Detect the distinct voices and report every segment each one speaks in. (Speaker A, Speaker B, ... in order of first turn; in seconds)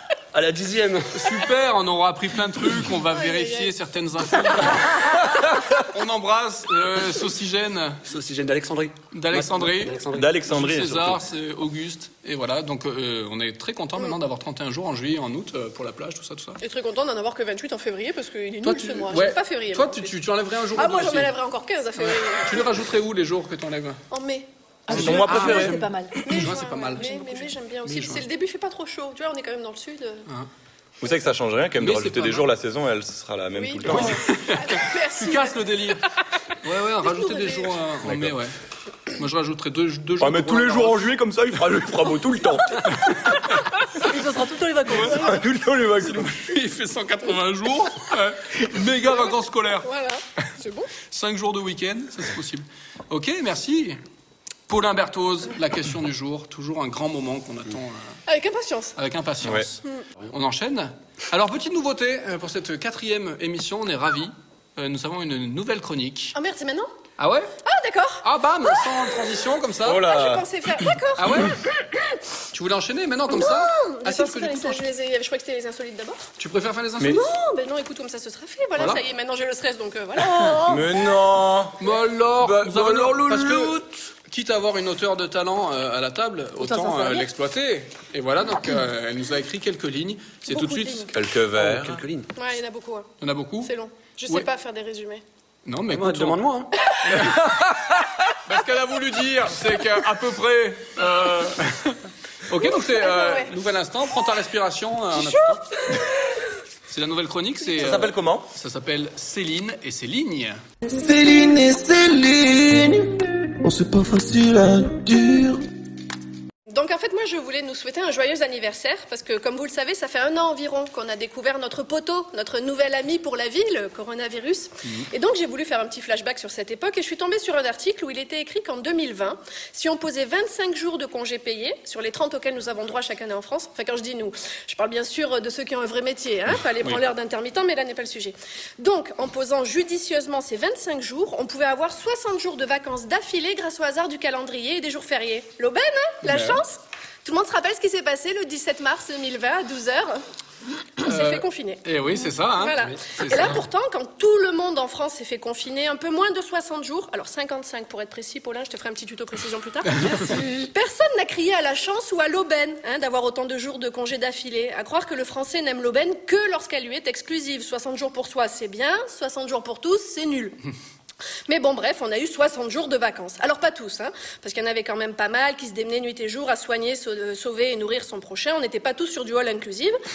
Speaker A: 0.3-1.3, 8.1-10.5, 91.5-92.3, 95.9-96.9
Speaker B: 1.1-8.0, 9.1-16.6, 18.6-21.4, 22.0-24.0, 24.9-28.3, 31.8-32.5, 33.9-36.1, 36.6-38.5, 39.1-41.1, 46.0-49.9, 51.1-54.0, 54.7-58.2, 59.0-66.3, 67.2-67.5, 68.2-70.0, 71.2-71.6, 72.5-74.8, 76.4-77.2, 78.8-79.0, 81.8-83.8, 84.3-91.1, 93.2-93.7, 95.7-96.5, 97.0-97.9, 98.5-105.7, 106.9-110.6, 146.2-146.6, 151.0-153.6
Speaker C: 3.1-3.7, 16.6-20.2, 20.7-22.7, 24.1-24.5, 26.2-30.3, 33.6-35.9, 37.0-37.8, 49.8-50.9, 58.3-59.0, 66.3-66.9, 67.6-69.0, 69.9-72.2, 73.3-76.3, 77.0-80.8, 92.4-93.1, 93.6-95.2, 102.6-103.5, 105.2-106.1, 116.7-150.2, 151.0-170.6, 171.5-180.0
Speaker D: 10.1-11.2, 24.9-25.9, 31.0-34.2, 38.0-38.4, 40.2-43.1, 44.9-46.4, 69.8-70.5, 80.6-81.9, 82.4-83.9, 91.1-92.0, 107.8-108.5
Speaker E: 24.9-26.2, 44.0-45.4, 80.3-80.8, 86.6-87.3, 90.5-91.1
Speaker F: 110.9-115.6